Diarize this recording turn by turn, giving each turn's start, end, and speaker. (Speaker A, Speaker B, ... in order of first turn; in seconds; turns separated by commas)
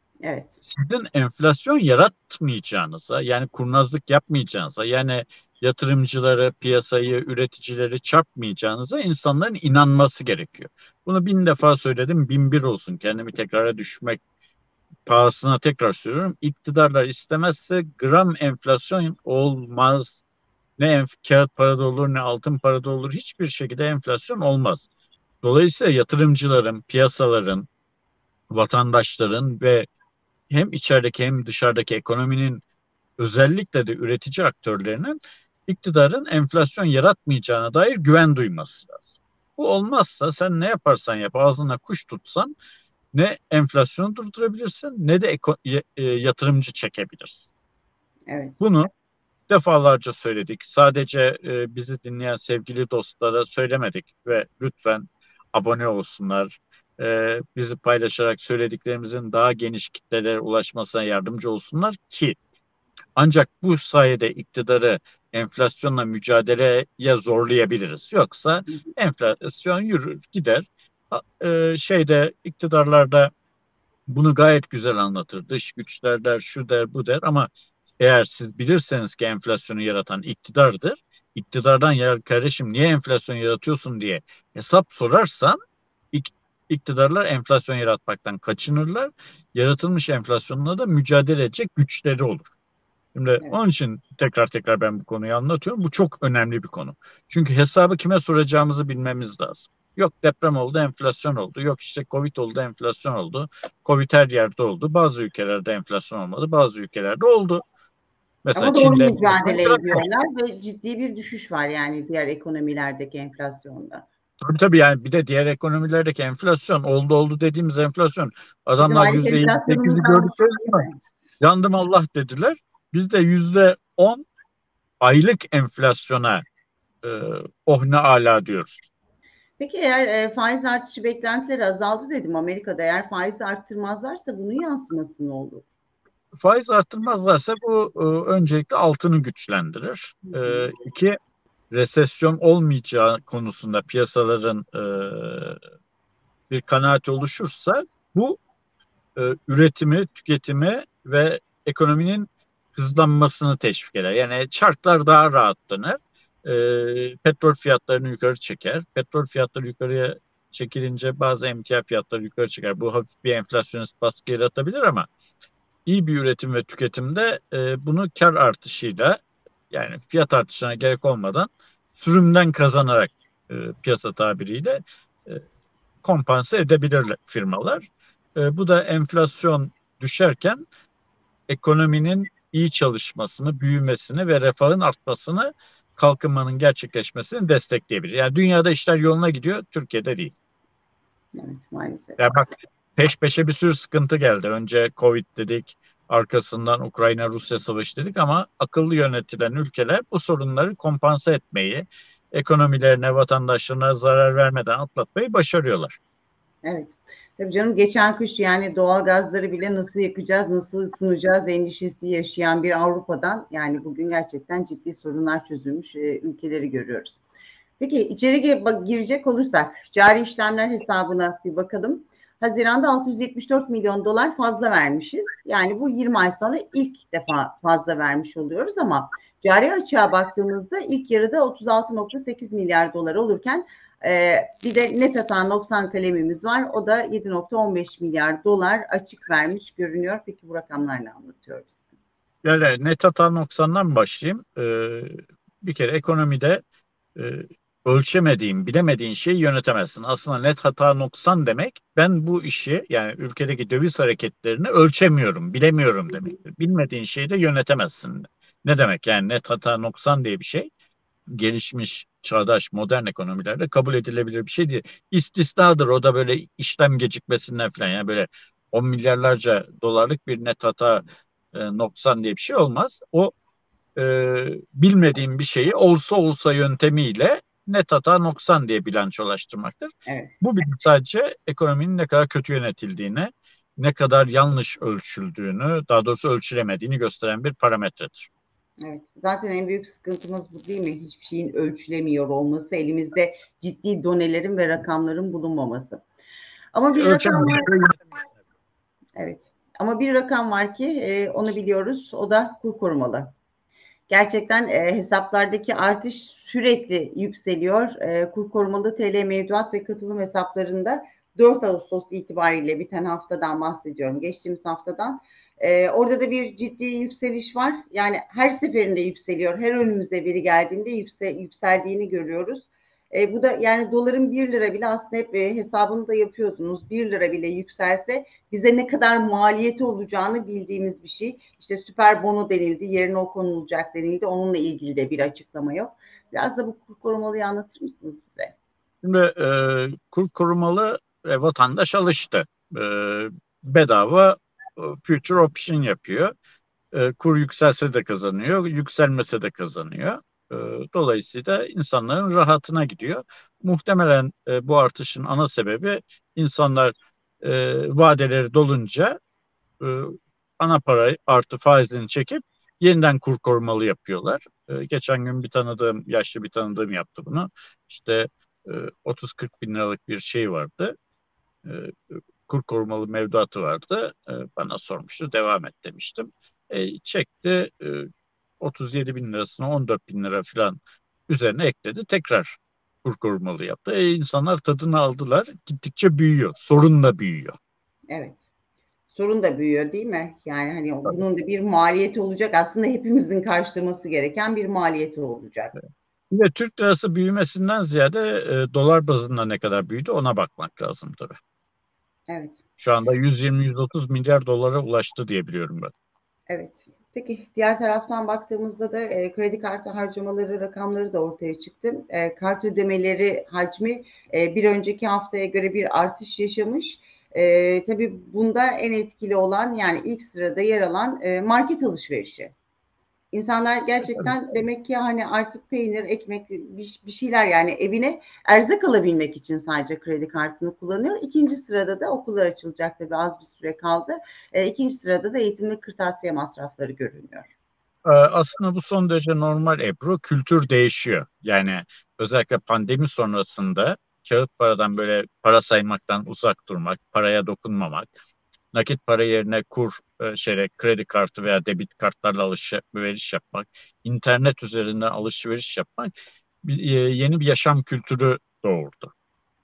Speaker A: 0.2-0.5, Speaker B: 0.6-14.2, Speaker B: 15.1-20.2, Speaker B: 20.8-24.9, Speaker B: 25.4-27.7, Speaker B: 28.5-29.9, Speaker B: 30.5-32.6, Speaker B: 33.2-42.5, Speaker B: 43.1-47.5, Speaker A: 48.3-48.6, Speaker B: 48.6-48.9, Speaker B: 49.5-62.4, Speaker B: 63.1-73.3, Speaker B: 74.1-77.5, Speaker B: 78.0-85.6, Speaker B: 86.1-92.5, Speaker B: 93.1-107.6, Speaker B: 108.4-110.0, Speaker A: 108.5-114.0, Speaker B: 114.4-120.8, Speaker A: 118.8-121.0, Speaker B: 121.4-124.2, Speaker B: 125.0-126.4, Speaker B: 127.0-128.8, Speaker A: 129.6-135.7, Speaker B: 136.4-141.2, Speaker A: 140.3-140.7, Speaker B: 141.7-145.6, Speaker B: 146.5-148.4, Speaker B: 149.2-165.1, Speaker B: 165.8-169.2, Speaker B: 169.7-175.4, Speaker B: 176.0-177.8, Speaker B: 178.4-180.6, Speaker B: 181.5-190.3, Speaker A: 191.3-192.2, Speaker B: 192.2-192.4, Speaker B: 193.0-206.0, Speaker A: 206.6-217.2, Speaker A: 217.8-241.8, Speaker B: 242.4-246.6, Speaker B: 247.2-260.7, Speaker B: 261.3-273.3, Speaker B: 273.9-288.3, Speaker A: 288.8-296.0, Speaker A: 296.7-297.7, Speaker B: 296.9-297.9, Speaker A: 299.1-303.3, Speaker A: 304.1-338.5, Speaker B: 339.0-346.3, Speaker B: 346.9-359.1, Speaker B: 359.8-370.9, Speaker B: 371.6-378.1, Speaker B: 378.6-387.6, Speaker A: 388.1-388.4, Speaker A: 389.1-395.7, Speaker B: 396.3-401.4, Speaker A: 402.3-402.6, Speaker B: 402.8-405.9, Speaker A: 406.5-422.5, Speaker A: 423.3-437.5, Speaker B: 438.1-448.1, Speaker B: 448.7-456.1, Speaker B: 456.6-459.1